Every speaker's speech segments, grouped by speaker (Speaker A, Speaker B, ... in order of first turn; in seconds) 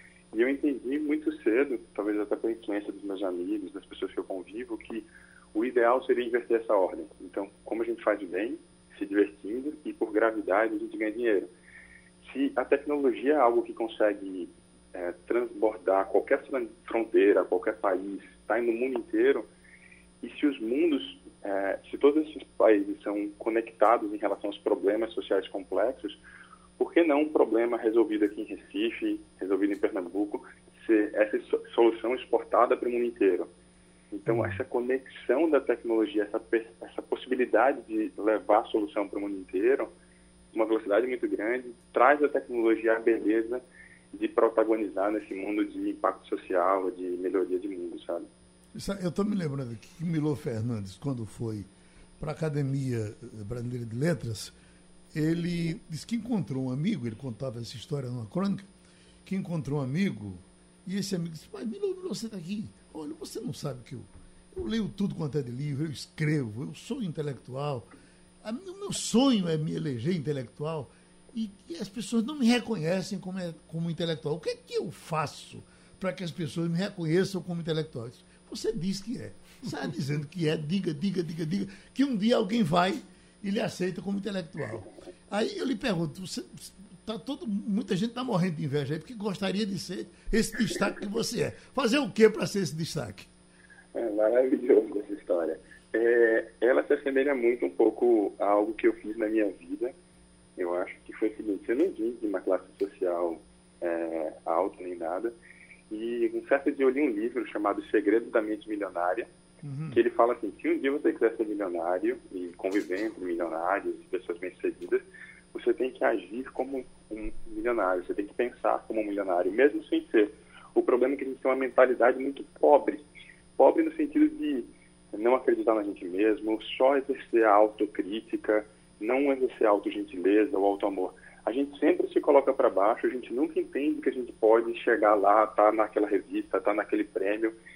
Speaker A: 0.3-11.5, 12.2-19.5, 20.2-26.2, 26.8-33.5, 34.1-39.9, 40.5-48.3, 93.9-99.9, 100.6-105.3, 105.9-109.3, 109.9-137.5
Speaker B: 34.3-34.6, 48.7-51.7, 52.2-54.5, 55.1-58.7, 59.2-67.9, 68.4-93.3, 109.6-110.0